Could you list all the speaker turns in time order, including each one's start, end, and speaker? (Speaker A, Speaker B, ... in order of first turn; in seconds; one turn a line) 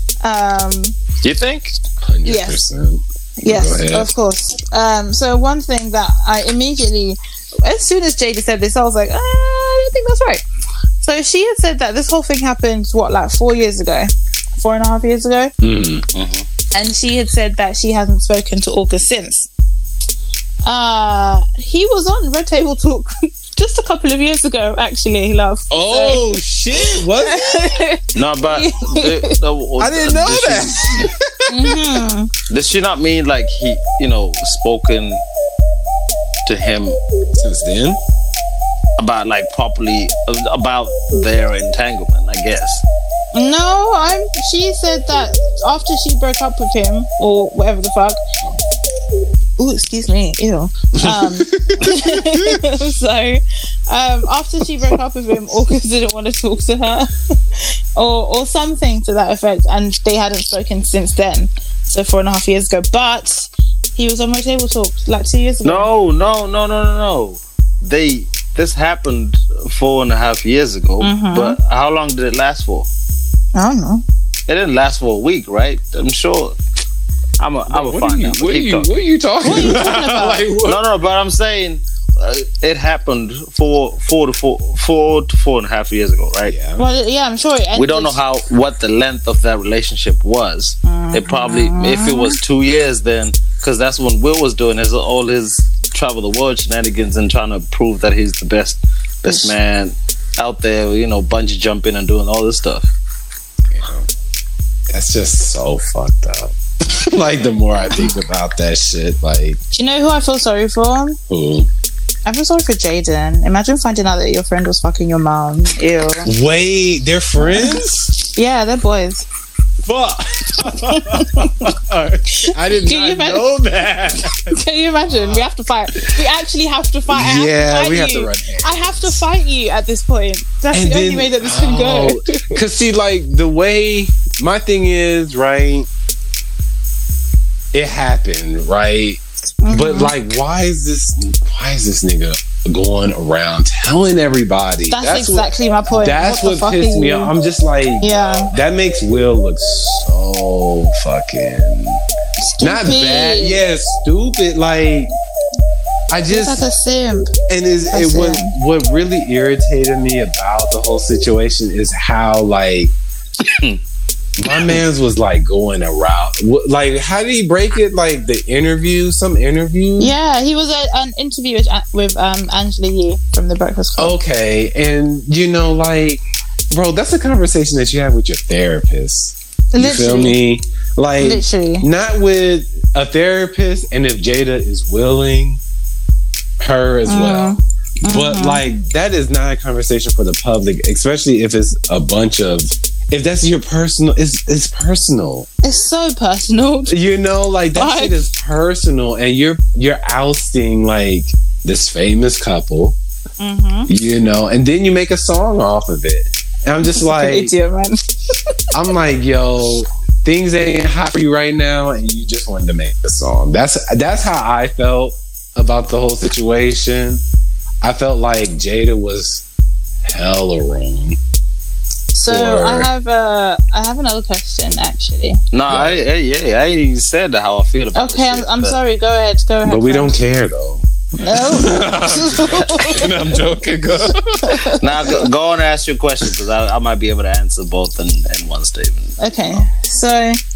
Speaker A: 0.2-1.0
Speaker B: 1.2-1.7
Speaker C: 2.0-4.1
Speaker A: 2.2-2.6
Speaker A: 3.4-10.4
Speaker A: 11.0-15.5
Speaker C: 15.6-16.1
Speaker B: 16.1-16.4
Speaker A: 16.7-19.5
Speaker A: 20.6-29.3
Speaker C: 25.7-27.7
Speaker B: 28.1-31.1
Speaker C: 29.8-32.0
Speaker A: 31.5-32.3
Speaker B: 32.5-35.2
Speaker B: 36.4-37.0
Speaker C: 37.4-38.0
Speaker B: 39.0-42.8
Speaker A: 43.3-48.2
Speaker A: 49.6-65.9
Speaker C: 51.0-52.6
Speaker B: 65.6-72.9
Speaker A: 71.0-71.6
Speaker A: 73.5-74.0
Speaker B: 74.5-76.6
Speaker B: 77.4-78.9
Speaker C: 77.7-80.8
Speaker A: 79.4-80.4
Speaker B: 80.6-86.5
Speaker C: 86.5-86.8
Speaker A: 86.8-88.2
Speaker B: 87.7-102.9
Speaker A: 90.8-92.4
Speaker A: 99.3-99.5
Speaker C: 103.7-104.1
Speaker C: 104.9-109.6
Speaker A: 109.7-111.2
Speaker C: 111.3-111.7
Speaker A: 112.2-116.3
Speaker C: 116.2-118.1
Speaker A: 117.4-119.2
Speaker C: 119.8-125.4
Speaker A: 120.9-121.7
Speaker A: 122.4-123.5
Speaker A: 124.5-132.6
Speaker C: 127.1-129.2
Speaker C: 130.7-135.9
Speaker C: 137.7-152.0
Speaker A: 139.6-140.1
Speaker A: 144.9-147.3
Speaker A: 148.0-148.5
Speaker A: 152.4-153.6
Speaker C: 152.6-155.1
Speaker C: 156.1-156.6
Speaker A: 156.3-157.3
Speaker C: 157.5-162.9
Speaker A: 157.9-158.5
Speaker B: 163.4-163.8
Speaker C: 164.4-170.1
Speaker A: 170.0-174.2
Speaker C: 174.0-185.6
Speaker A: 179.7-180.4
Speaker A: 181.2-181.8
Speaker C: 186.6-195.5
Speaker A: 187.1-188.6
Speaker A: 195.6-196.9
Speaker C: 196.9-203.0
Speaker A: 197.8-198.2
Speaker A: 203.4-203.9
Speaker C: 203.9-207.5
Speaker A: 206.8-208.0
Speaker C: 208.7-217.2
Speaker C: 217.8-219.4
Speaker C: 220.0-221.2
Speaker A: 222.1-225.4
Speaker C: 222.3-222.9
Speaker B: 225.5-228.8
Speaker C: 225.7-226.0
Speaker A: 227.9-230.1
Speaker C: 229.6-234.6
Speaker A: 231.2-233.3
Speaker A: 234.4-234.8
Speaker B: 234.6-239.1
Speaker A: 239.2-240.4